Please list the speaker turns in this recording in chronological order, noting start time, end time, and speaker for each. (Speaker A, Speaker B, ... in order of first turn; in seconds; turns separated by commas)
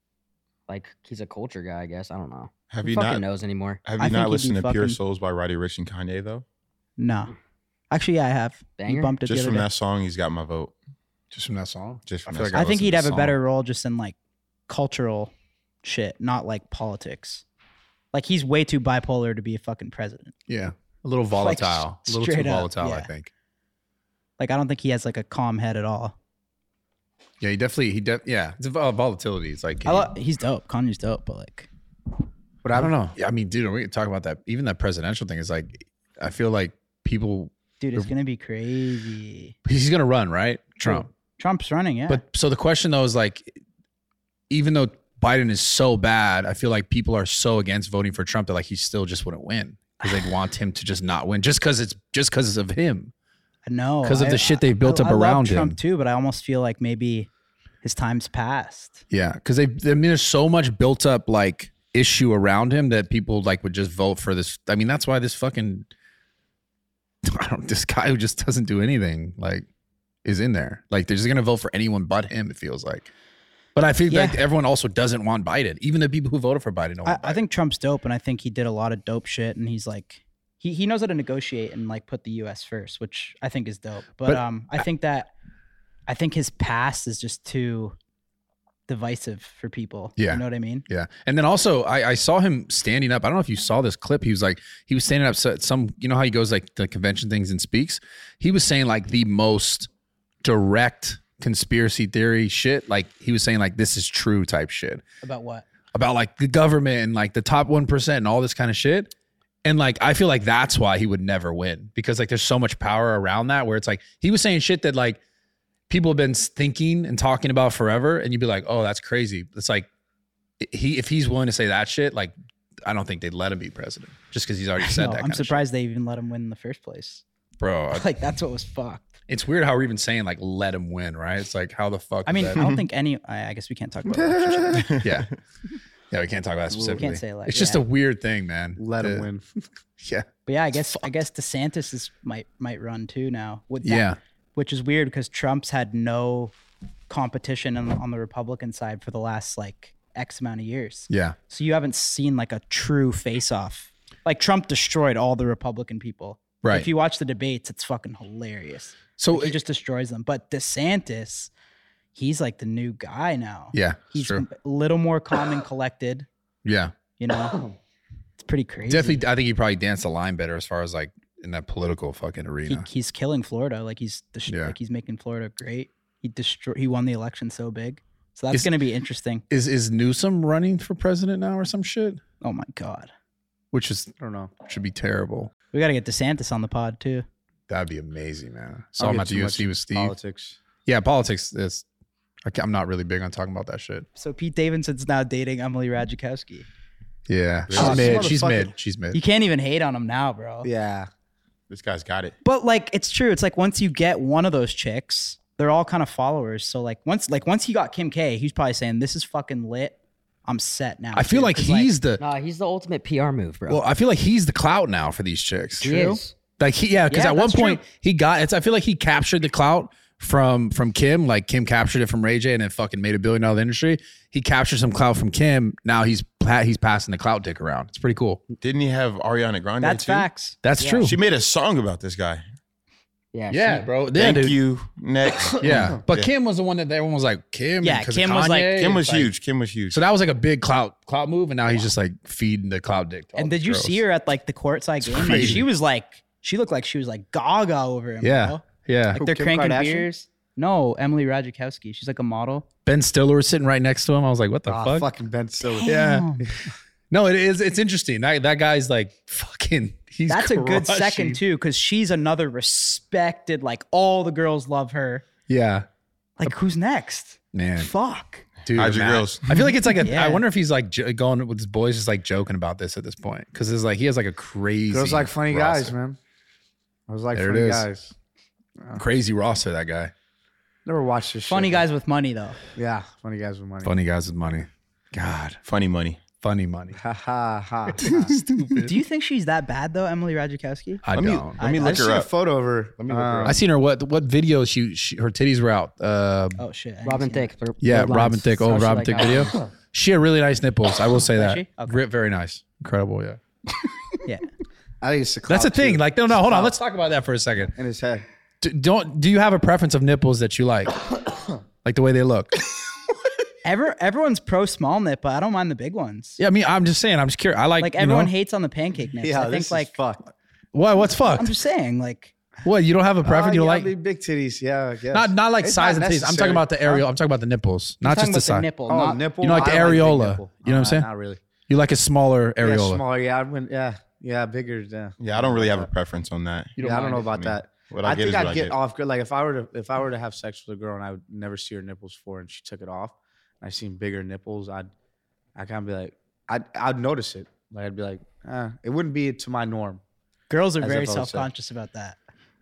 Speaker A: 0.7-3.8, Speaker B: 2.7-3.2, Speaker B: 3.8-6.5, Speaker C: 4.0-5.0, Speaker C: 7.0-7.3, Speaker C: 7.9-9.7, Speaker A: 8.8-9.2, Speaker B: 9.3-10.7, Speaker D: 11.3-13.4, Speaker B: 12.1-12.7, Speaker C: 12.5-14.2, Speaker C: 14.7-15.3, Speaker C: 15.8-17.4, Speaker C: 18.1-20.4, Speaker D: 20.5-23.3, Speaker C: 21.4-23.1, Speaker C: 24.4-26.2, Speaker D: 27.4-30.1, Speaker C: 29.9-31.7, Speaker D: 32.7-38.1, Speaker C: 37.8-39.6, Speaker D: 39.7-41.1, Speaker C: 40.8-42.2, Speaker D: 42.1-43.5, Speaker D: 44.5-53.1, Speaker C: 53.7-57.3, Speaker D: 54.0-55.8, Speaker C: 57.8-59.0, Speaker D: 59.1-65.9, Speaker D: 67.2-69.7, Speaker D: 70.2-73.1, Speaker D: 73.8-77.4, Speaker C: 74.1-74.4, Speaker C: 77.0-85.3, Speaker C: 86.1-88.0, Speaker C: 88.9-90.8, Speaker D: 90.2-99.9, Speaker D: 100.4-105.0, Speaker C: 105.2-105.7, Speaker D: 105.9-109.1, Speaker D: 109.7-115.2, Speaker D: 115.9-119.9, Speaker D: 120.6-122.3, Speaker D: 122.9-125.6, Speaker C: 124.8-127.2, Speaker D: 127.6-128.1, Speaker C: 127.9-129.1, Speaker D: 129.3-132.7, Speaker C: 132.3-134.9, Speaker D: 134.6-135.3, Speaker B: 134.7-135.2, Speaker D: 136.1-139.3, Speaker C: 136.8-137.8, Speaker E: 138.8-139.5, Speaker D: 140.0-140.3, Speaker C: 140.5-146.5, Speaker D: 143.8-144.2, Speaker C: 147.1-161.5, Speaker D: 151.1-151.4, Speaker D: 156.6-156.9, Speaker D: 159.2-159.6, Speaker C: 162.2-166.3, Speaker D: 163.7-164.4, Speaker D: 166.7-166.9, Speaker C: 167.2-167.6, Speaker C: 168.4-169.2, Speaker D: 168.9-172.9, Speaker C: 172.7-179.4, Speaker D: 174.5-174.8, Speaker D: 179.5-182.2, Speaker C: 182.4-183.1, Speaker D: 183.7-185.5, Speaker E: 184.2-184.5, Speaker C: 185.7-187.3, Speaker D: 187.7-190.1, Speaker E: 189.0-190.6, Speaker D: 190.9-191.8, Speaker D: 192.5-194.1, Speaker C: 194.2-196.7, Speaker D: 197.3-199.2, Speaker B: 197.7-198.3, Speaker E: 197.7-198.7, Speaker C: 199.1-200.7, Speaker E: 200.6-201.1, Speaker B: 201.7-202.3, Speaker C: 202.4-211.9, Speaker D: 211.1-212.2, Speaker A: 212.2-213.8, Speaker D: 213.7-228.4, Speaker A: 215.8-216.3, Speaker C: 215.9-216.2, Speaker C: 217.1-217.8, Speaker B: 228.6-230.3, Speaker C: 229.8-230.6, Speaker D: 230.6-231.2, Speaker A: 230.8-231.2, Speaker B: 231.0-232.4, Speaker A: 233.3-233.9, Speaker D: 233.5-234.6, Speaker B: 234.1-236.3, Speaker D: 235.6-239.3, Speaker C: 237.8-238.8, Speaker B: 238.8-240.0, Speaker D: 239.9-244.0, Speaker C: 243.4-252.7, Speaker D: 245.1-245.6, Speaker B: 245.2-245.6, Speaker D: 248.2-249.2, Speaker E: 249.1-250.1, Speaker D: 252.9-255.1, Speaker E: 254.7-256.5, Speaker C: 255.7-256.5, Speaker D: 255.8-256.3, Speaker D: 257.1-261.4, Speaker C: 260.3-265.2, Speaker D: 265.5-265.9, Speaker C: 266.4-268.4, Speaker D: 267.5-267.9, Speaker D: 268.7-275.9, Speaker B: 268.7-269.7, Speaker C: 270.0-270.4, Speaker E: 274.9-276.2, Speaker E: 277.1-278.1, Speaker D: 277.3-277.9, Speaker E: 278.8-279.0, Speaker D: 278.9-280.1, Speaker E: 280.9-281.9, Speaker C: 281.5-282.6, Speaker E: 282.8-284.0, Speaker D: 283.8-285.6, Speaker B: 285.6-286.2, Speaker D: 286.4-287.0, Speaker E: 286.9-288.3, Speaker D: 288.0-288.9, Speaker C: 288.8-291.0, Speaker D: 291.1-291.6, Speaker B: 291.1-292.3, Speaker C: 291.6-292.1, Speaker E: 291.6-293.6, Speaker B: 293.0-293.6, Speaker D: 293.4-296.6, Speaker C: 296.6-297.5, Speaker A: 297.1-299.5, Speaker D: 297.8-303.4, Speaker C: 301.3-302.0, Speaker E: 305.0-306.8, Speaker D: 305.5-307.7, Speaker E: 307.8-308.2, Speaker D: 308.6-311.1, Speaker D: 311.8-312.6, Speaker C: 313.6-316.4, Speaker D: 316.4-318.3, Speaker C: 317.8-319.9, Speaker E: 319.2-320.2, Speaker D: 320.7-321.5, Speaker C: 321.3-322.3, Speaker D: 322.6-323.9, Speaker E: 323.2-327.1, Speaker D: 325.1-328.7, Speaker C: 328.0-329.2, Speaker E: 328.9-331.4, Speaker D: 329.4-331.1, Speaker D: 331.7-333.0, Speaker E: 332.6-335.9, Speaker B: 335.2-338.8, Speaker D: 336.8-337.3, Speaker E: 336.8-344.9, Speaker E: 345.6-350.0, Speaker C: 350.5-352.2, Speaker E: 350.8-351.5